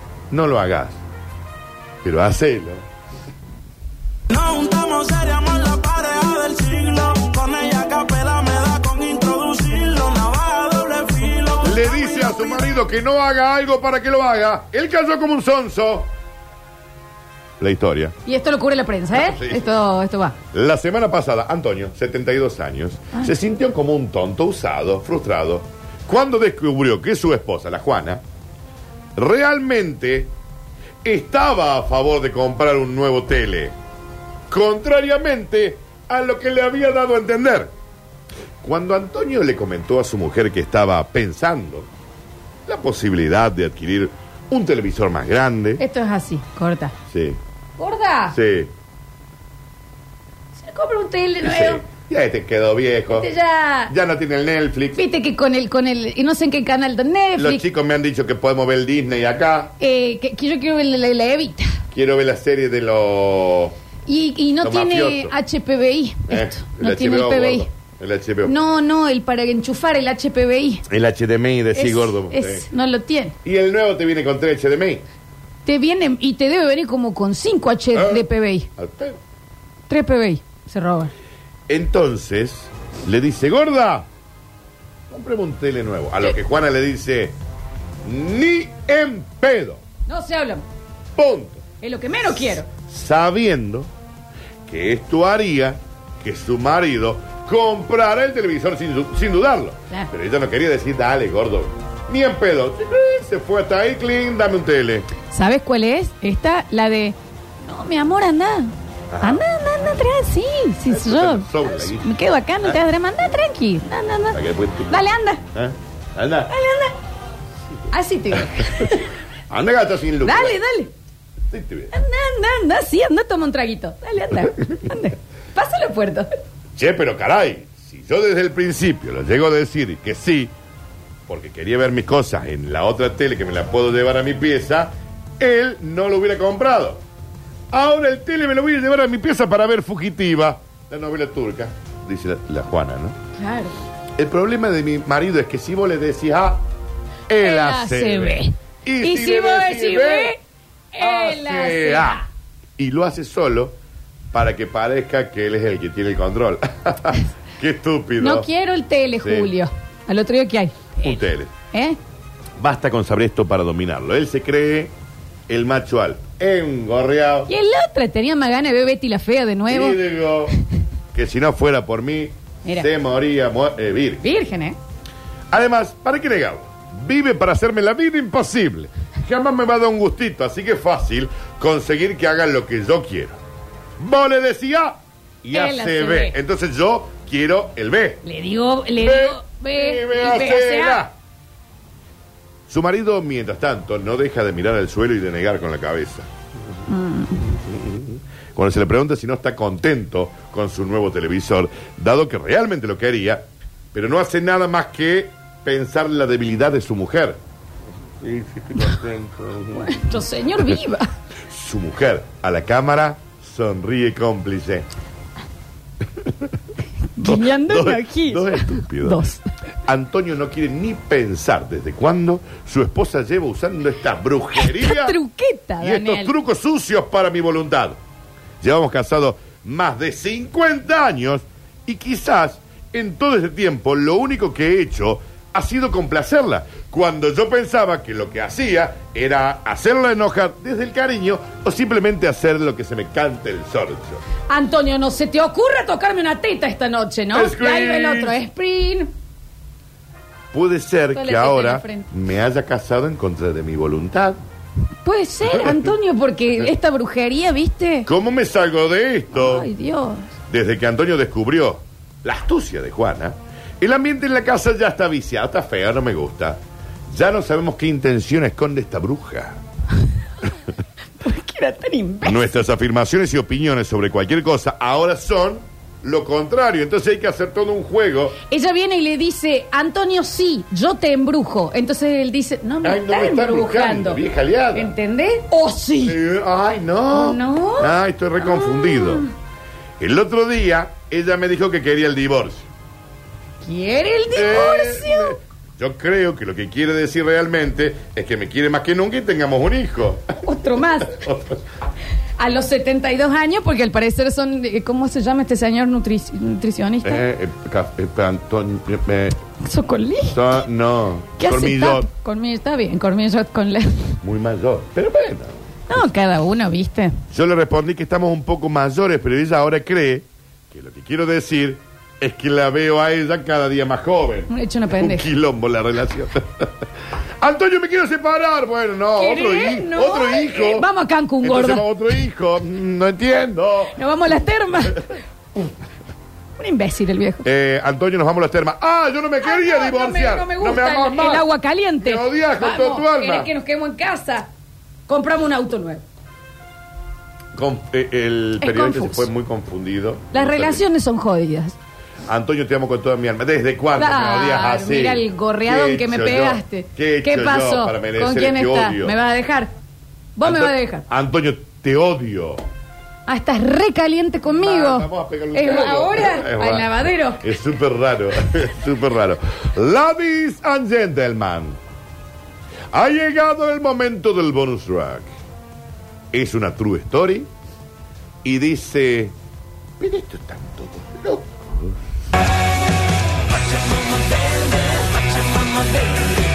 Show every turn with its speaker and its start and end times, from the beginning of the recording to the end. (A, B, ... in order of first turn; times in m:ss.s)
0:00.3-0:01.0 A
0:02.0-0:02.8 A
0:04.3-0:12.2 B
0:11.6-0:16.1 A
0:17.6-0:18.1 A
0:18.2-0:20.3 C
0:19.1-0:19.7 A
0:20.5-0:28.2 A
0:29.2-0:30.3 A
0:31.0-0:33.7 A
0:34.5-0:37.7 A
0:38.6-0:41.9 A
0:42.6-0:45.8 A
0:45.8-0:46.9 C
0:47.1-0:47.4 A
0:47.8-0:48.4 C
0:48.3-0:48.7 A
0:50.6-0:51.8 C
0:51.4-0:53.3 A
0:53.1-0:53.9 C
0:53.9-0:55.0 A
0:55.0-0:57.6 C
0:57.4-0:59.7 A
0:59.8-1:01.7 C
1:01.9-1:03.8 A
1:04.1-1:07.7 C
1:04.6-1:05.3 A
1:06.3-1:08.6 A
1:08.4-1:10.8 C
1:10.9-1:12.6 A
1:11.7-1:13.3 C
1:13.4-1:15.0 A
1:15.6-1:18.7 C
1:17.9-1:18.2 A
1:18.8-1:19.2 A
1:19.9-1:21.1 C
1:21.7-1:24.1 A
1:25.1-1:27.4 A
1:28.0-1:29.8 A
1:30.1-1:30.6 C
1:31.2-1:31.6 A
1:31.8-1:32.7 C
1:32.5-1:33.9 A
1:34.7-1:45.1 A
1:45.3-1:55.4 C
1:49.1-1:49.4 A
1:50.8-1:52.1 A
1:54.3-1:56.5 A
1:56.5-1:56.9 C
1:57.9-1:59.1 C
1:58.3-1:59.0 A
1:59.5-2:00.6 A
2:00.2-2:00.9 C
2:01.5-2:01.9 A
2:01.9-2:06.3 C
2:06.8-2:10.5 A
2:11.3-2:17.0 A
2:17.7-2:23.2 A
2:23.4-2:23.7 C
2:24.2-2:26.6 A
2:27.3-2:30.3 A
2:27.4-2:30.4 C
2:30.9-2:32.2 C
2:31.0-2:32.2 A
2:32.8-2:33.8 A
2:34.3-2:38.5 A
2:38.2-2:41.2 C
2:39.2-2:39.5 A
2:41.0-2:41.5 A
2:41.7-2:42.0 C
2:42.6-2:44.9 A
2:45.5-2:47.5 A
2:47.5-2:50.0 C
2:49.7-2:50.5 A
2:51.1-2:54.2 A
2:54.2-2:54.8 C
2:55.5-3:03.4 A
3:04.0-3:08.2 A
3:05.5-3:06.4 C
3:08.2-3:11.0 C
3:09.0-3:11.1 A
3:12.7-3:16.3 A
3:16.9-3:17.5 C
3:17.5-3:27.4 A
3:28.2-3:30.0 A
3:29.7-3:31.1 C
3:31.5-3:34.9 A
3:36.2-3:36.5 A
3:37.2-3:39.4 C
3:37.2-3:39.3 A
3:39.8-3:45.2 A
3:44.6-3:46.3 C
3:45.8-3:48.0 A
3:48.6-4:04.2 A
4:04.5-4:09.1 C
4:07.3-4:08.4 A
4:10.5-4:14.4 A
4:11.1-4:12.1 C
4:15.0-4:18.1 C
4:15.5-4:15.9 A
4:18.1-4:19.7 A
4:19.3-4:20.3 C
4:20.5-4:29.6 A
4:31.2-4:32.5 C
4:32.2-4:38.4 A
4:38.4-4:44.2 C
4:42.8-4:44.9 A
4:44.7-4:46.2 C
4:46.0-4:49.2 A
4:47.1-4:49.3 C
4:50.0-4:52.7 A
4:53.6-4:55.4 C
4:54.3-5:00.4 A
5:00.4-5:01.3 C
5:01.0-5:01.6 A
5:02.4-5:07.2 C
5:07.0-5:09.4 A
5:09.6-5:10.4 C
5:10.3-5:12.1 A
5:11.4-5:14.2 C
5:14.2-5:15.6 A
5:15.9-5:17.2 C
5:17.3-5:26.8 A
5:24.5-5:25.3 C
5:27.4-5:30.9 A
5:29.2-5:31.8 C
5:31.4-5:34.0 A
5:33.9-5:35.2 C
5:36.6-5:37.4 C
5:37.4-5:41.5 A
5:39.4-5:44.5 C
5:42.0-5:43.5 A
5:45.1-5:46.0 C
5:47.5-5:50.8 A
5:48.6-5:49.3 C
5:50.3-5:51.8 C
5:52.2-5:59.2 A
5:54.0-5:59.7 C
6:00.4-6:01.0 C
6:00.4-6:02.6 A
6:03.3-6:07.4 C
6:04.6-6:11.8 A
6:12.9-6:15.3 A
6:16.3-6:17.5 A
6:18.4-6:19.3 A
6:20.0-6:22.0 A
6:23.6-6:26.3 B